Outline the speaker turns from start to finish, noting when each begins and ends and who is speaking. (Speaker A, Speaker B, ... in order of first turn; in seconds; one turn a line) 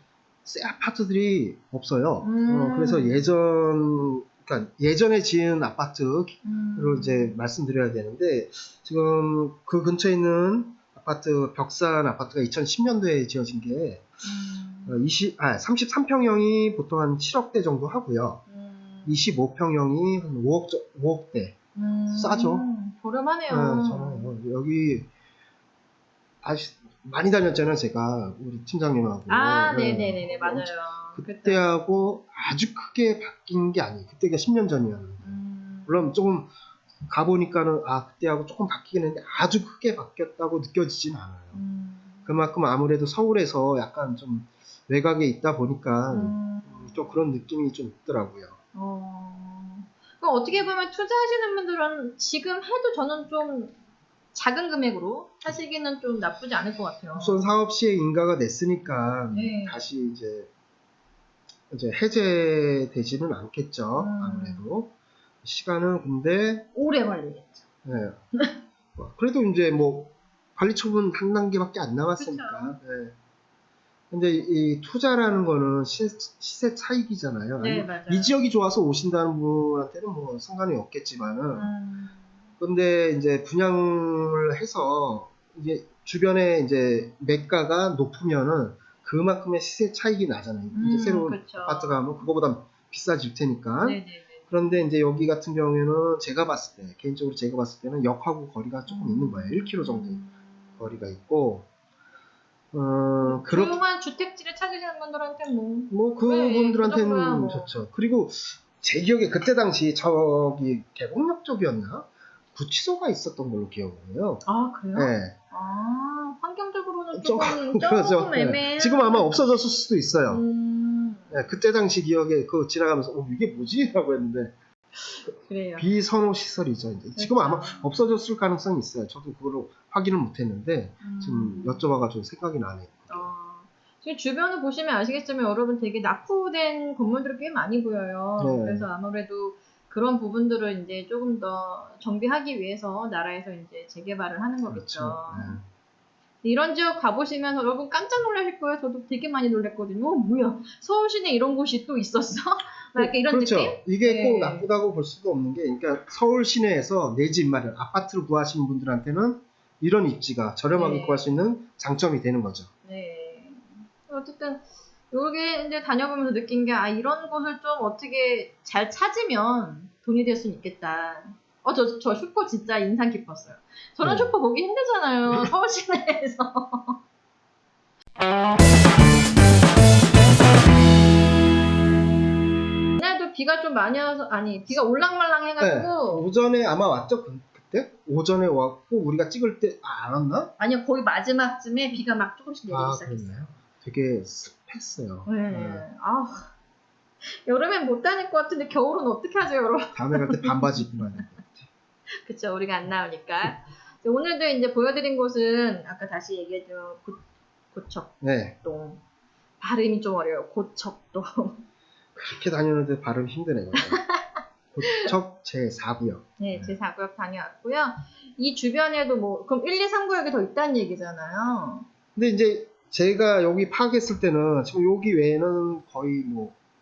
Speaker A: 0.5-14.2
Speaker B: 2.2-3.3
Speaker B: 6.4-7.4
Speaker B: 14.2-15.1
Speaker A: 14.9-18.4
Speaker B: 18.5-19.3
Speaker A: 19.1-21.6
Speaker B: 21.8-24.3
Speaker A: 22.1-22.7
Speaker A: 23.5-25.1
Speaker A: 26.4-36.5
Speaker B: 29.3-31.7
Speaker B: 35.2-36.1
Speaker A: 37.1-41.6
Speaker B: 41.5-42.4
Speaker A: 42.3-48.6
Speaker B: 46.1-47.2
Speaker B: 48.7-53.8
Speaker B: 54.3-57.4
Speaker A: 57.1-60.5
Speaker B: 59.3-59.8
Speaker A: 61.7-64.9
Speaker B: 64.0-64.7
Speaker A: 65.4-66.7
Speaker B: 66.8-67.6
Speaker A: 67.8-68.2
Speaker A: 69.0-73.2
Speaker B: 72.2-72.8
Speaker A: 74.1-81.7
Speaker B: 77.6-78.3
Speaker B: 81.5-82.3
Speaker A: 82.6-100.2
Speaker B: 90.7-92.1
Speaker B: 93.8-94.8
Speaker B: 98.9-101.1
Speaker A: 100.8-101.7
Speaker A: 102.7-103.8
Speaker B: 103.2-107.8
Speaker A: 105.9-115.3
Speaker B: 114.5-119.4
Speaker A: 117.2-120.4
Speaker B: 120.3-121.4
Speaker A: 121.3-124.5
Speaker B: 125.1-125.9
Speaker A: 125.8-133.3
Speaker B: 127.2-128.0
Speaker B: 131.0-131.9
Speaker B: 133.1-145.6
Speaker A: 138.4-138.9
Speaker A: 144.7-145.6
Speaker B: 146.4-154.7
Speaker A: 153.0-162.7
Speaker B: 160.7-161.4
Speaker B: 162.8-177.0
Speaker A: 174.0-174.3
Speaker B: 182.9-186.3
Speaker A: 185.6-190.5
Speaker B: 190.6-193.4
Speaker A: 192.7-195.8
Speaker B: 195.3-196.5
Speaker B: 197.2-201.2
Speaker A: 199.9-201.7
Speaker B: 202.2-209.0
Speaker A: 208.2-208.6
Speaker B: 209.6-211.6
Speaker A: 212.2-214.0
Speaker B: 213.8-214.3
Speaker A: 214.7-216.8
Speaker B: 216.4-221.9
Speaker A: 222.2-226.6